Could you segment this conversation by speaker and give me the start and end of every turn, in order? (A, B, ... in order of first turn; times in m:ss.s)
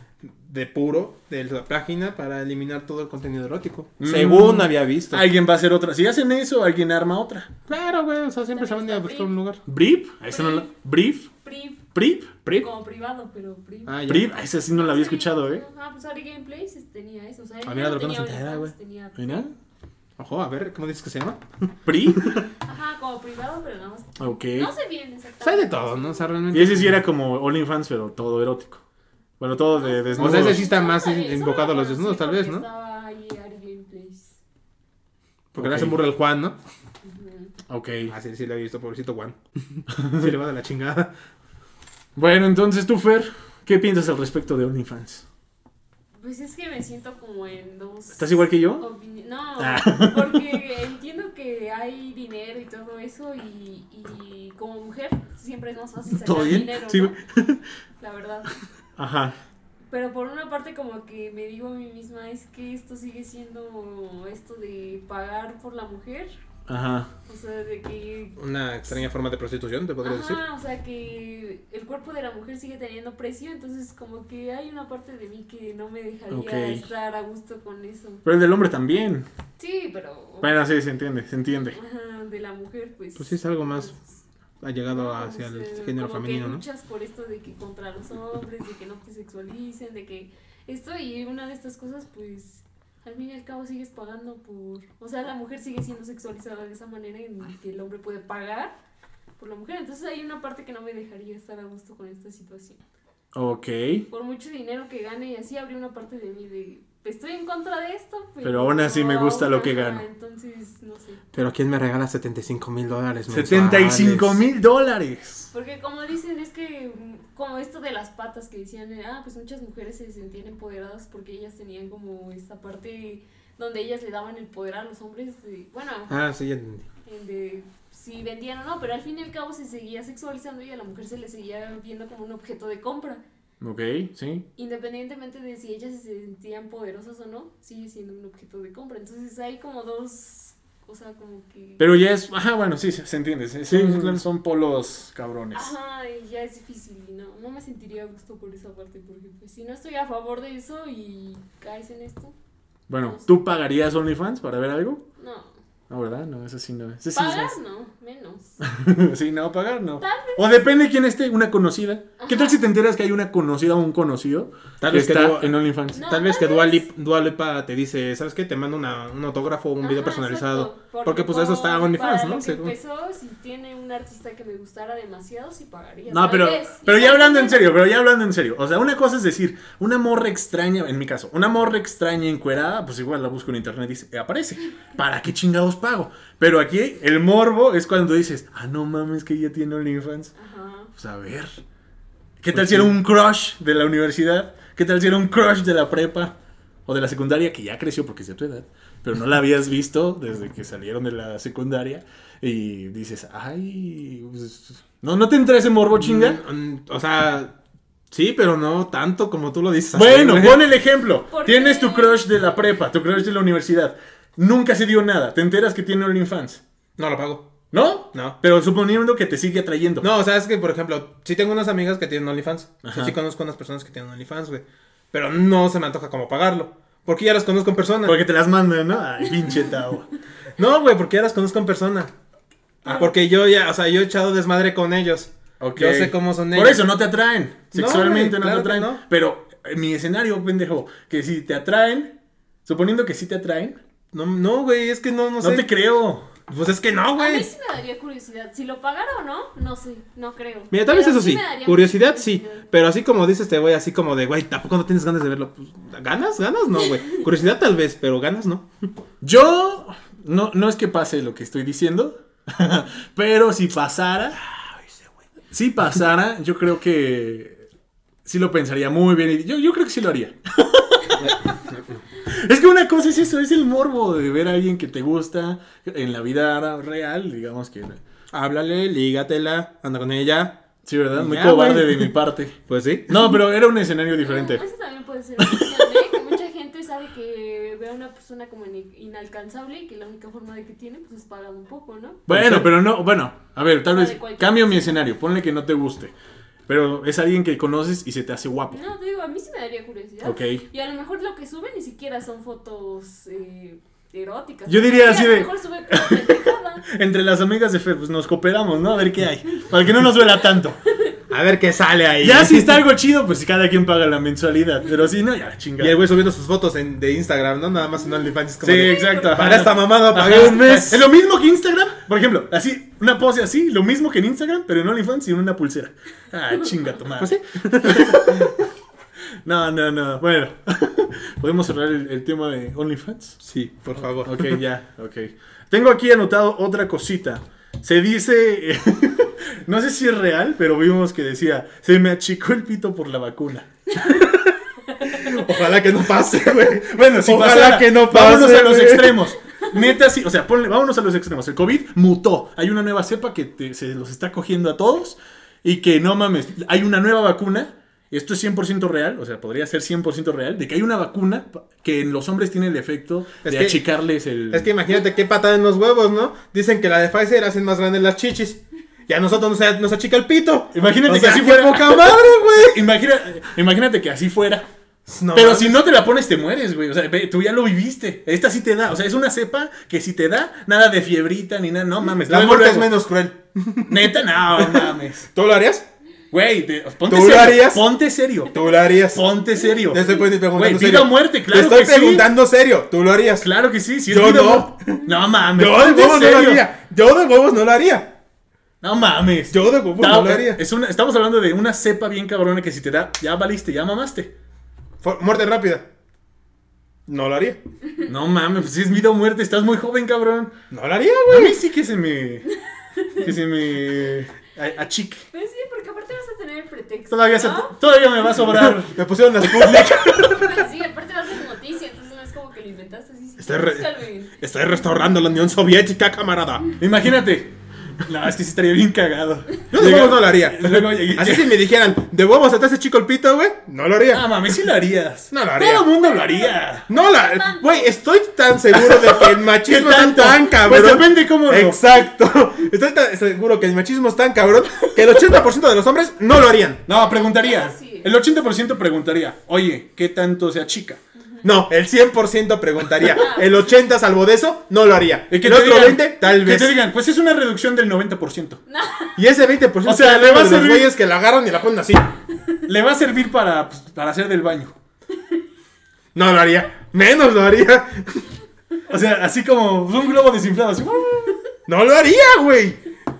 0:00.2-0:05.2 A
0:04.0-0:07.5 B
0:07.7-0:09.6 A
0:08.5-0:09.3 C
0:09.7-0:11.3 B
0:10.3-0:10.7 C
0:11.4-0:11.9 C
0:11.9-0:12.3 B
0:12.5-0:14.1 C
0:13.8-0:14.4 A
0:14.1-0:15.6 B
0:14.7-0:19.5 C
0:17.6-0:18.7 A
0:19.2-0:19.5 B
0:20.2-0:21.4 A
0:21.8-0:22.4 B
0:22.0-0:22.4 A
0:22.6-0:26.5 C
0:24.2-0:24.7 B
0:25.4-0:27.0 A
0:26.5-0:28.8 B
0:29.4-0:30.6 B
0:29.5-0:34.4 C
0:30.2-0:32.6 A
0:35.5-0:36.6 A
0:35.6-0:36.0 B
0:37.0-0:37.5 C
0:37.7-0:38.1 B
0:38.1-0:41.1 A
0:39.9-0:40.3 B
0:42.2-0:45.2 B
0:46.2-0:57.2 C
0:48.1-0:48.8 B
0:49.6-0:50.6 B
0:56.2-0:56.7 B
0:56.9-0:57.6 A
0:58.0-0:58.6 C
0:59.0-0:59.3 B
0:59.9-1:06.3 C
1:06.7-1:07.1 B
1:07.3-1:08.4 C
1:08.4-1:10.4 A
1:10.0-1:18.2 C
1:16.3-1:16.8 B
1:18.2-1:19.3 B
1:19.6-1:20.6 C
1:20.4-1:21.8 B
1:21.7-1:24.2 C
1:23.2-1:23.9 A
1:24.6-1:26.6 A
1:24.9-1:38.7 C
1:39.4-1:42.8 C
1:43.3-1:44.0 B
1:44.1-1:51.2 C
1:48.4-1:50.0 B
1:51.3-1:54.4 A
1:53.3-1:55.5 B
1:55.5-2:06.1 C
2:06.1-2:06.8 A
2:07.0-2:13.2 C
2:13.6-2:14.4 B
2:14.6-2:21.9 C
2:21.8-2:25.7 B
2:23.7-2:24.2 A
2:25.5-2:32.3 C
2:32.9-2:35.0 B
2:35.2-2:35.5 C
2:35.9-2:37.5 B
2:37.1-2:38.6 C
2:38.6-2:46.0 B
2:40.0-2:40.6 C
2:42.2-2:42.6 C
2:44.8-2:52.7 A
2:45.9-2:46.8 C
2:49.8-2:57.7 C
2:56.1-3:10.3 B
3:10.4-3:10.9 C
3:11.0-3:11.6 B
3:12.4-3:16.3 B
3:12.5-3:12.9 A
3:16.8-3:26.4 B
3:26.0-3:27.6 A
3:28.1-3:30.6 A
3:29.9-3:36.6 B
3:31.3-3:32.3 C
3:37.0-3:37.5 A
3:37.7-3:40.1 B
3:40.0-3:48.2 A
3:42.8-3:43.2 B
3:48.0-3:50.1 B
3:50.6-3:52.1 A
3:52.8-3:56.8 A
3:55.6-4:03.8 B
3:57.7-3:59.0 A
4:04.1-4:05.7 A
4:05.4-4:06.3 B
4:06.5-4:07.5 A
4:07.2-4:12.7 C
4:10.7-4:18.7 A
4:19.2-4:24.4 B
4:25.5-4:27.6 B
4:28.2-4:31.6 B
4:31.2-4:32.0 A
4:32.2-4:38.0 B
4:38.3-4:40.6 A
4:40.8-4:44.6 B
4:41.1-4:42.1 A
4:42.7-4:43.2 A
4:44.2-4:52.2 C
4:45.4-4:45.8 B
4:52.3-4:56.1 B
4:52.3-4:52.7 A
4:53.8-4:55.0 C
4:56.7-4:58.8 B
4:58.7-5:06.9 C
5:00.2-5:00.6 B
5:04.7-5:10.8 B
5:11.3-5:12.8 A
5:12.2-5:16.0 B
5:15.8-5:21.1 A
5:18.6-5:28.6 B
5:18.8-5:19.6 C
5:27.2-5:28.5 A
5:29.4-5:33.4 B
5:33.4-5:34.6 A
5:34.0-5:44.0 B
5:44.0-5:49.3 A
5:46.6-6:04.7 B
6:03.4-6:03.8 A
6:04.5-6:12.8 A
6:10.7-6:14.7 B
6:15.0-6:15.8 A
6:15.3-6:22.9 B
6:22.3-6:25.9 A
6:23.9-6:25.3 B
6:26.3-6:28.6 B
6:27.1-6:27.8 A
6:28.5-6:29.2 A
6:29.1-6:32.3 B
6:29.8-6:33.5 A
6:33.4-6:36.6 B
6:34.1-6:38.2 A
6:38.8-6:44.3 B
6:39.5-6:40.6 A
6:45.0-6:45.9 A
6:47.1-6:47.6 A
6:48.0-6:50.5 B
6:50.7-6:51.5 A
6:51.3-6:52.5 B
6:53.0-6:53.2 C
6:53.1-6:55.2 B
6:55.3-6:57.8 C
6:57.1-7:00.0 B
6:58.5-7:00.6 A
7:00.0-7:04.4 C
7:03.4-7:06.7 A
7:06.8-7:11.6 B
7:09.7-7:14.6 A
7:14.1-7:16.9 B
7:15.3-7:15.9 A
7:16.0-7:17.9 C
7:16.9-7:26.8 A
7:18.8-7:21.8 B
7:26.8-7:31.0 B
7:26.9-7:28.1 C
7:31.2-7:31.5 C
7:31.4-7:36.8 A
7:33.1-7:33.6 C
7:35.3-7:38.6 B
7:38.7-7:39.2 C
7:39.2-7:42.1 A
7:39.8-7:40.9 B
7:42.6-7:44.8 B
7:46.1-7:48.3 A
7:48.9-7:51.4 B
7:51.7-7:52.8 A